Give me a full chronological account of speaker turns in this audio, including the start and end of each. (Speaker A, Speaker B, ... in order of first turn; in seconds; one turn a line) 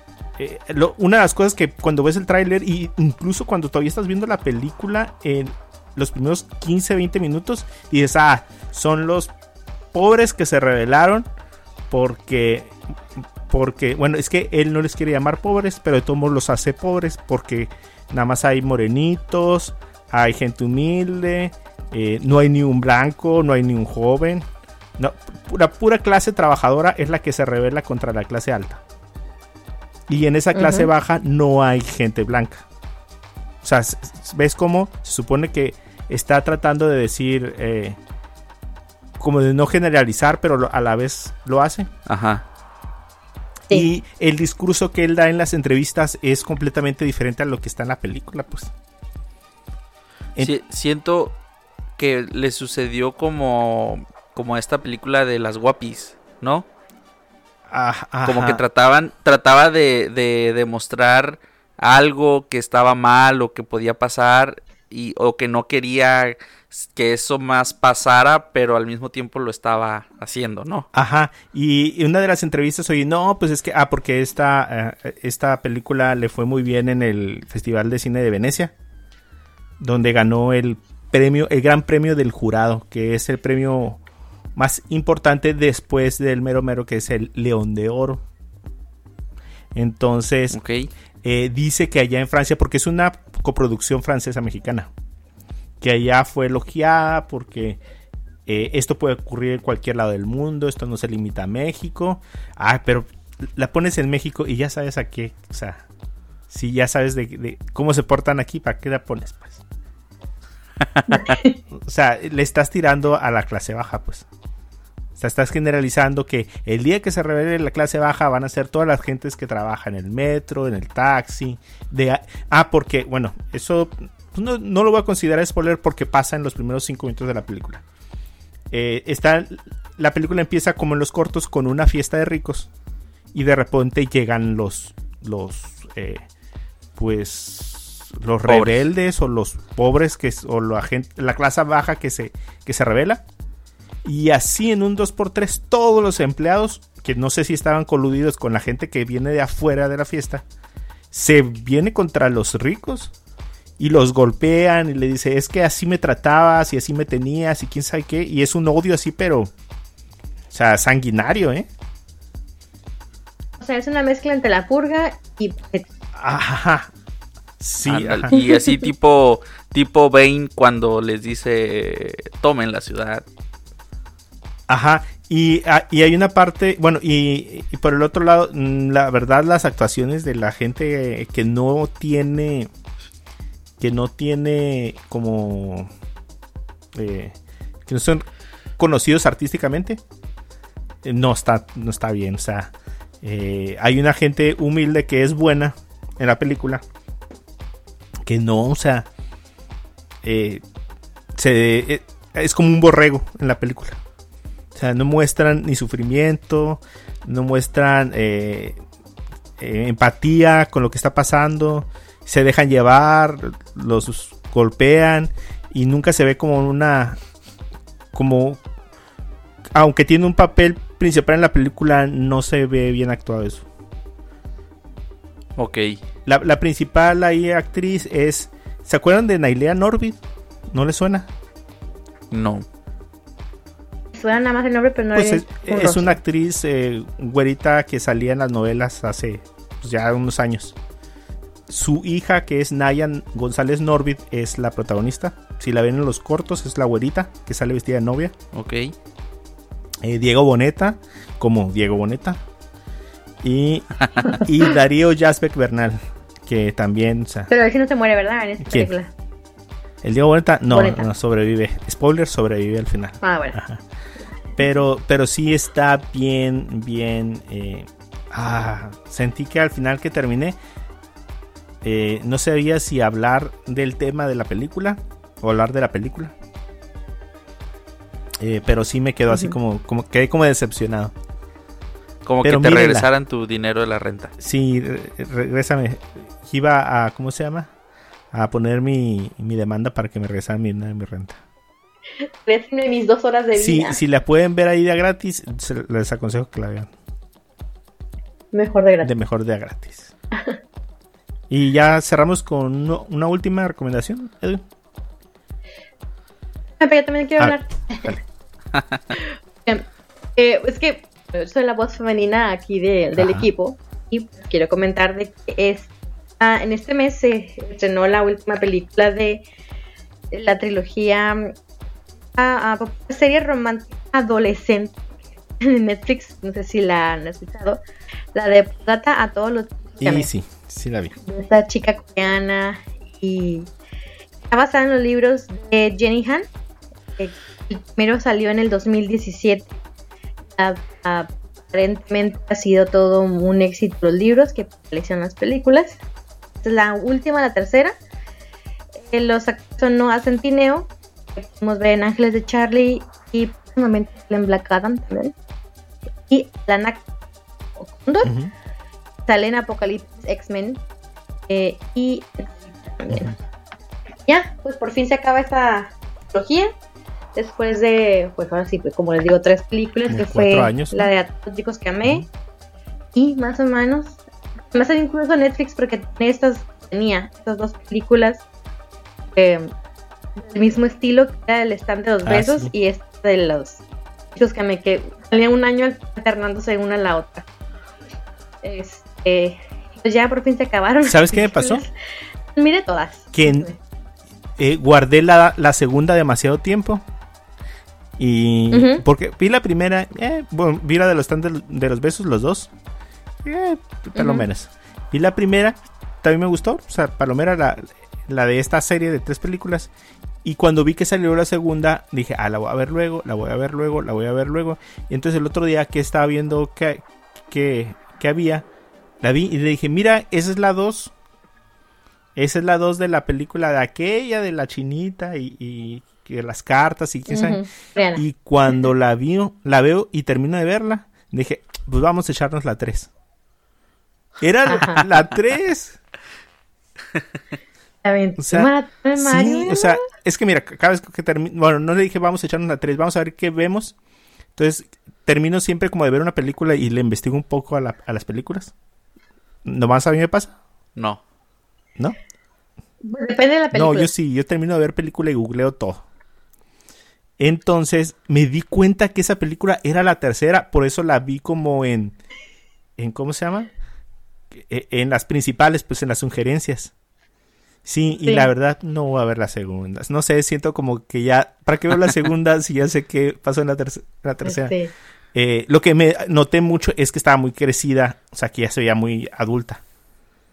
Speaker A: 0.4-9.3
Speaker A: 9.9-11.3
Speaker A: 11.9-24.5
Speaker A: 25.0-28.8
Speaker A: 30.1-32.7
Speaker B: 30.6-30.9
Speaker A: 33.6-38.0
Speaker A: 39.2-41.9
Speaker C: 42.1-42.4
Speaker A: 43.7-48.7
Speaker C: 50.4-51.4
Speaker C: 52.0-56.7
Speaker A: 57.7-58.6
Speaker C: 58.2-70.9
Speaker A: 70.9-78.7
Speaker A: 79.8-84.0
Speaker A: 84.6-88.2
Speaker A: 89.7-90.6
Speaker C: 90.5-90.9
Speaker A: 91.2-94.9
Speaker A: 95.8-97.8
Speaker A: 98.5-105.8
Speaker A: 106.5-109.6
Speaker B: 111.1-111.5
Speaker A: 111.7-114.3
Speaker A: 115.2-127.8
Speaker A: 128.7-132.7
Speaker A: 133.3-136.2
Speaker A: 136.9-143.2
Speaker C: 138.5-138.8
Speaker A: 144.0-150.4
Speaker A: 151.1-153.1
Speaker A: 153.8-159.5
Speaker A: 160.5-161.7
Speaker B: 163.6-165.9
Speaker A: 166.1-166.9
Speaker A: 167.6-168.3
Speaker C: 167.9-173.2
Speaker B: 168.3-168.6
Speaker A: 174.7-182.7
Speaker A: 183.8-185.9
Speaker A: 186.9-188.3
Speaker A: 188.8-190.0
Speaker A: 191.0-196.8
Speaker A: 198.2-199.1
Speaker A: 200.2-200.6
Speaker A: 201.3-204.0
Speaker A: 204.8-208.8
Speaker A: 209.6-217.2
Speaker A: 218.1-218.6
Speaker A: 219.7-223.7
Speaker C: 225.6-226.0
Speaker A: 226.3-230.2
Speaker A: 230.7-231.3
Speaker C: 232.3-232.7
Speaker B: 234.1-236.2
Speaker A: 235.1-240.8
Speaker A: 241.7-248.3
Speaker C: 248.5-248.9
Speaker A: 250.0-252.4
Speaker A: 253.4-257.5
Speaker B: 257.5-259.1
Speaker A: 258.6-258.9
Speaker A: 260.0-263.8
Speaker B: 260.7-261.1
Speaker B: 263.2-263.6
Speaker A: 264.6-270.6
Speaker A: 271.8-276.4
Speaker A: 278.4-281.1
Speaker B: 279.3-279.6
Speaker C: 282.2-284.3
Speaker A: 282.4-283.1
Speaker A: 284.4-287.7
Speaker A: 288.3-291.4
Speaker B: 292.2-294.0
Speaker A: 293.6-296.9
Speaker B: 298.5-299.1
Speaker A: 299.0-300.1
Speaker A: 301.5-304.6
Speaker B: 306.8-308.2
Speaker A: 307.4-308.2
Speaker B: 309.1-319.4
Speaker A: 313.2-313.5
Speaker B: 320.3-321.5
Speaker B: 322.4-325.1
Speaker B: 325.6-327.8
Speaker B: 328.3-330.3
Speaker A: 330.0-331.1
Speaker B: 331.2-333.7
Speaker B: 334.5-336.5
Speaker B: 337.2-339.8
Speaker B: 340.6-346.0
Speaker B: 346.6-348.0
Speaker B: 349.0-355.4
Speaker B: 356.3-357.1
Speaker B: 357.8-358.4
Speaker A: 358.2-358.5
Speaker B: 359.3-360.8
Speaker B: 361.5-363.4
Speaker B: 364.3-366.7
Speaker B: 367.4-372.3
Speaker A: 370.1-371.1
Speaker B: 373.1-374.2
Speaker B: 374.7-378.4
Speaker B: 379.4-379.7
Speaker B: 380.4-383.8
Speaker A: 382.2-382.7
Speaker B: 384.4-387.5
Speaker B: 388.6-391.9
Speaker A: 391.0-391.8
Speaker B: 392.6-393.8
Speaker A: 393.3-393.7
Speaker A: 394.6-397.1
Speaker A: 398.2-402.7
Speaker B: 398.7-399.0
Speaker A: 403.4-409.9
Speaker B: 404.1-404.5
Speaker A: 410.4-418.7
Speaker A: 419.2-421.1
Speaker A: 422.4-433.1
Speaker B: 427.3-428.2
Speaker A: 434.4-436.0
Speaker B: 434.7-435.1
Speaker B: 438.0-440.1
Speaker A: 438.4-443.9
Speaker A: 444.6-448.7
Speaker A: 449.6-450.6
Speaker C: 451.0-451.2
Speaker B: 453.0-454.1
Speaker A: 453.7-456.0
Speaker A: 457.4-462.2
Speaker A: 463.0-463.7
Speaker A: 464.5-466.9
Speaker A: 467.9-474.8
Speaker B: 468.2-468.5
Speaker B: 474.4-474.9
Speaker A: 475.3-479.8